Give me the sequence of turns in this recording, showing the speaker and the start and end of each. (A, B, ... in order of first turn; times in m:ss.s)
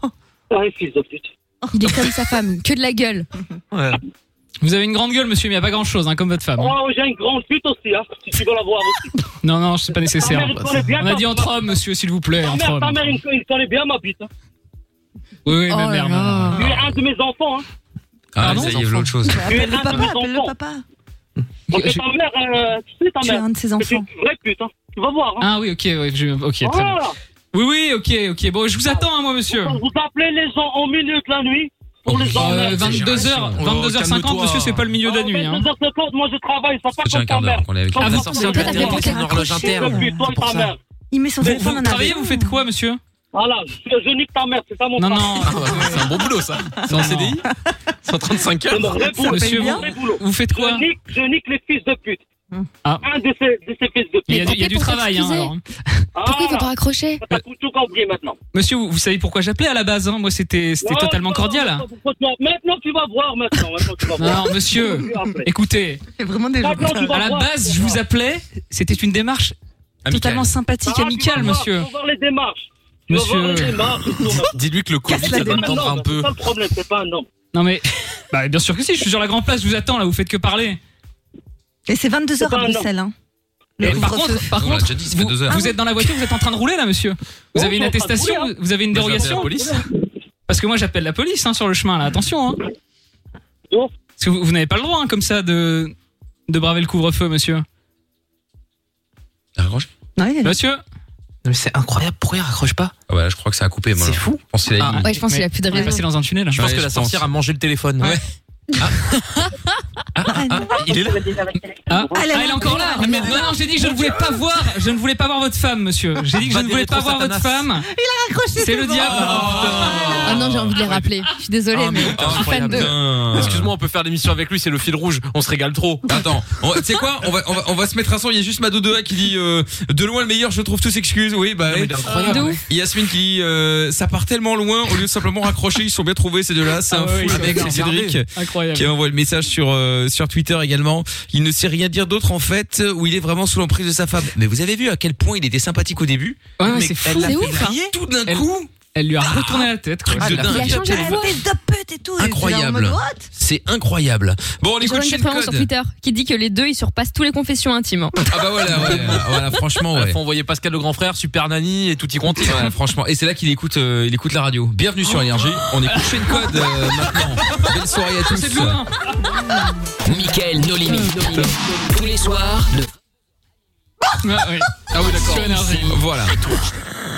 0:00.5-0:01.3 A
0:01.7-0:03.3 B
0:03.7-0:04.0 C
0:04.6-0:06.8 D
0:06.6-0:09.2 A
0:09.4-0:13.2 D
0:10.2-0:11.7 A
0:12.4-0:14.3 A
0:15.4-0:16.7 D
0:15.7-0:16.7 E
0:15.8-0:16.6 B
0:16.5-0:17.6 A
0:18.4-0:19.4 F
0:18.4-0:19.2 D
0:18.5-0:18.8 C
0:19.2-0:20.8 E
0:19.5-0:20.5 A
0:21.7-0:25.5 A
0:21.7-0:22.0 D
0:23.2-0:24.1 E
0:25.4-0:27.0 D
0:26.6-0:27.2 A
0:27.5-0:29.8 D
0:28.9-0:33.3 A
0:32.1-0:33.6 F
0:32.3-0:35.7 D
0:33.5-0:34.9 C
0:35.0-0:40.8 A
0:37.0-0:38.6 F
0:38.0-0:40.7 C
0:38.1-0:39.2 D
0:38.4-0:39.9 B
0:39.2-0:40.2 E
0:41.1-0:42.6 E
0:41.4-0:43.0 D
0:43.3-0:45.7 A
0:45.0-0:46.1 D
0:45.4-0:47.4 C
0:46.9-0:47.4 D
0:48.0-0:49.2 C
0:48.7-0:52.2 A
0:49.0-0:49.9 E
0:49.2-0:50.9 D
0:53.0-0:54.6 A
0:54.3-0:55.5 B
0:54.3-0:55.6 D
0:56.2-0:58.4 A
0:56.2-0:57.2 B
0:58.5-1:01.8 D
1:00.8-1:05.5 A
1:04.2-1:06.0 D
1:06.2-1:07.2 E
1:06.6-1:08.0 A
1:07.1-1:09.6 D
1:10.0-1:10.5 F
1:10.1-1:11.9 D
1:10.8-1:17.3 A
1:13.1-1:13.9 D
1:14.4-1:16.3 C
1:15.1-1:15.9 E
1:17.5-1:20.8 D
1:21.9-1:23.1 E
1:22.4-1:22.9 A
1:23.8-1:24.6 E
1:23.8-1:29.6 D
1:23.8-1:25.7 F
1:25.5-1:25.8 E
1:27.5-1:28.5 A
1:28.9-1:29.8 C
1:29.1-1:29.9 A
1:30.5-1:32.6 D
1:34.2-1:35.9 D
1:36.5-1:37.6 D
1:39.6-1:39.9 F
1:40.2-1:40.6 E
1:40.4-1:40.8 D
1:41.4-1:42.9 C
1:43.1-1:45.1 F
1:44.0-1:45.1 C
1:45.0-1:46.0 B
1:45.2-1:46.7 D
1:46.5-1:48.2 C
1:46.5-1:47.3 F
1:48.8-1:49.1 F
1:50.2-1:50.8 F
1:50.3-1:50.7 E
1:50.7-1:51.3 C
1:51.9-1:57.9 D
1:52.1-1:53.5 E
1:52.6-1:53.1 B
1:56.4-1:57.7 C
1:57.9-1:59.4 E
1:58.6-2:00.1 D
1:59.0-2:00.8 F
1:59.1-2:01.1 C
2:00.2-2:02.9 B
2:01.7-2:06.1 C
2:02.0-2:03.7 F
2:06.1-2:31.3 F
2:11.6-2:12.6 C
2:12.2-2:12.6 D
2:12.2-2:12.6 B
2:16.9-2:18.9 D
2:17.2-2:18.2 C
2:26.6-2:27.8 D
2:26.7-2:27.9 C
2:27.2-2:27.7 B
2:28.3-2:30.4 D
2:30.1-2:31.2 C
2:30.3-2:31.4 B
2:30.7-2:33.3 E
2:32.2-2:35.7 F
2:34.8-2:38.2 B
2:38.3-2:40.2 F
2:38.7-2:39.3 C
2:39.9-2:42.7 C
2:42.4-2:48.8 F
2:48.3-2:49.4 D
2:50.0-2:52.9 G
2:51.3-2:51.6 C
2:54.2-2:56.0 D
2:54.8-2:56.6 C
2:55.9-2:56.4 F